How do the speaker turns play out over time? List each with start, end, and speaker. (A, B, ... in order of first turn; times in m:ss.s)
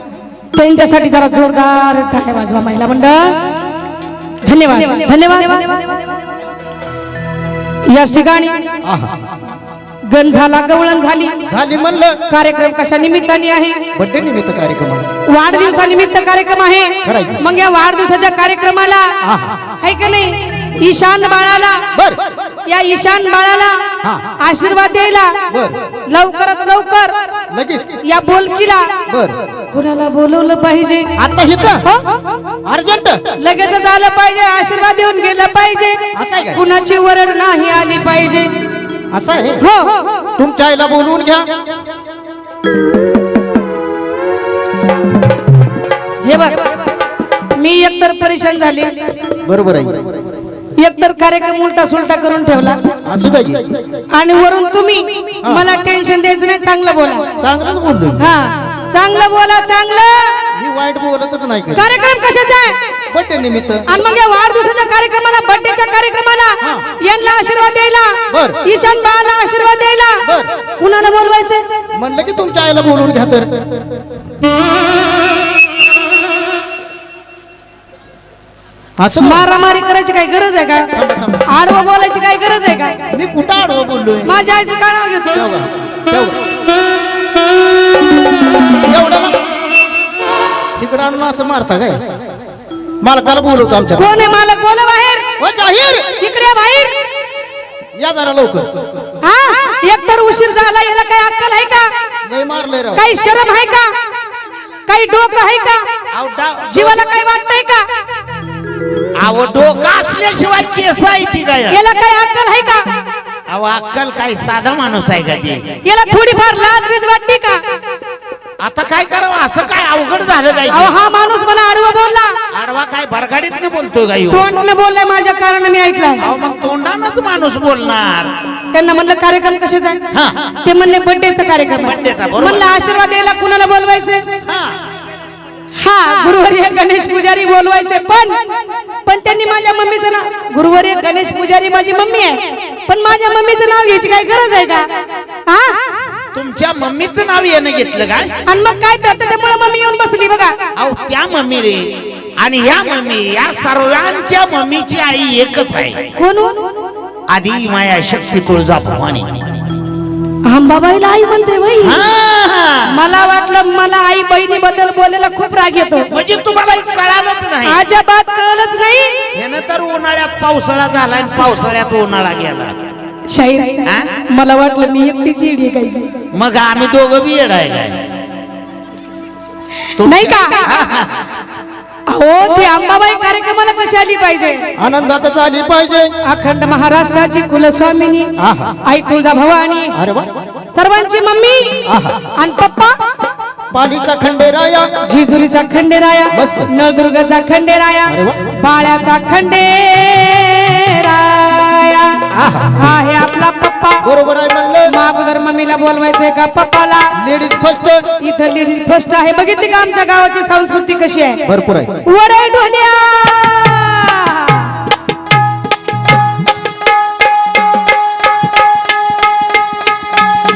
0:00.5-0:03.6 A
0:04.4-0:06.0 A
0:07.9-0:08.7 A
0:08.8-0:09.2 B
0:10.1-0:11.4 A
0:11.5-0:12.2 B
0:12.3-0:13.9 A
0:13.9-0:15.1 B
0:15.3-0:19.2 A
0:17.0-0:17.4 B
0:19.2-0:19.6 B
0:19.8-0:21.9 A
0:21.9-0:22.4 B
0:22.7-0:25.4 A
0:24.0-0:24.3 B
0:25.5-0:25.8 B
0:26.1-0:27.3 A
0:27.5-0:28.0 B
0:28.0-0:29.0 A
0:29.1-0:29.4 B
0:29.7-0:31.2 A
0:31.2-0:31.9 B
0:32.6-0:33.3 B
0:33.4-0:38.7 A
0:36.1-0:36.6 B
0:39.1-0:39.6 B
0:39.6-0:40.2 A
0:40.4-0:41.5 B
0:46.2-0:46.9 A
0:47.5-0:49.2 A
0:49.4-0:50.2 B
0:50.8-0:52.9 A
0:53.1-0:53.7 B
0:54.1-0:57.3 A
0:57.4-0:58.2 B
0:58.2-1:00.4 A
1:00.5-1:01.9 B
1:01.7-1:02.8 A
1:03.1-1:03.9 B
1:03.9-1:11.9 A
1:08.3-1:08.6 B
1:10.2-1:10.6 B
1:11.9-1:14.0 B
1:19.0-1:19.5 B
1:19.2-1:23.1 A
1:20.9-1:21.4 B
1:23.1-1:24.3 B
1:24.2-1:25.5 A
1:25.3-1:26.4 B
1:28.8-1:29.4 B
1:30.8-1:32.0 B
1:33.0-1:34.2 B
1:34.0-1:35.3 A
1:35.4-1:36.2 B
1:36.2-1:37.0 A
1:38.0-1:38.8 B
1:39.2-1:41.9 A
1:42.2-1:43.0 B
1:43.0-1:43.9 A
1:44.9-1:45.9 A
1:46.1-1:47.0 C
1:46.7-1:47.8 A
1:49.2-1:51.8 C
1:51.7-1:52.9 A
1:53.5-1:55.6 C
1:55.8-1:57.6 A
1:58.6-2:01.0 C
2:00.7-2:02.4 A
2:02.5-2:04.5 C
2:04.3-2:06.3 A
2:06.2-2:08.3 C
2:08.7-2:10.1 A
2:10.1-2:10.6 C
2:10.6-2:14.4 A
2:11.8-2:12.7 C
2:14.5-2:14.8 C
2:15.8-2:18.4 A
2:19.0-2:24.9 A
2:25.5-2:25.9 A
2:26.3-2:28.3 C
2:28.5-2:30.6 A
2:30.8-2:36.1 C
2:36.2-2:36.6 A
2:37.3-2:39.6 C
2:40.4-2:42.0 A
2:41.8-2:43.0 C
2:42.9-2:46.1 A
2:46.1-2:47.8 C
2:47.6-2:49.2 A
2:49.3-2:52.7 C
2:53.3-2:56.2 A
2:53.8-2:54.1 C
2:56.3-2:58.1 C
3:00.0-3:01.2 C
3:00.0-3:00.7 A
3:02.1-3:04.7 A
3:04.8-3:06.1 B
3:06.2-3:10.0 A
3:08.4-3:08.8 B
3:10.0-3:10.4 B
3:10.7-3:13.0 A
3:11.9-3:12.3 B
3:13.7-3:15.0 B
3:15.0-3:24.0 A
3:16.3-3:16.7 B
3:18.1-3:18.4 B
3:22.3-3:22.8 B
3:24.0-3:25.0 B
3:24.9-3:27.1 A
3:27.2-3:28.1 B
3:28.2-3:31.4 A
3:31.4-3:32.0 B
3:32.0-3:34.8 A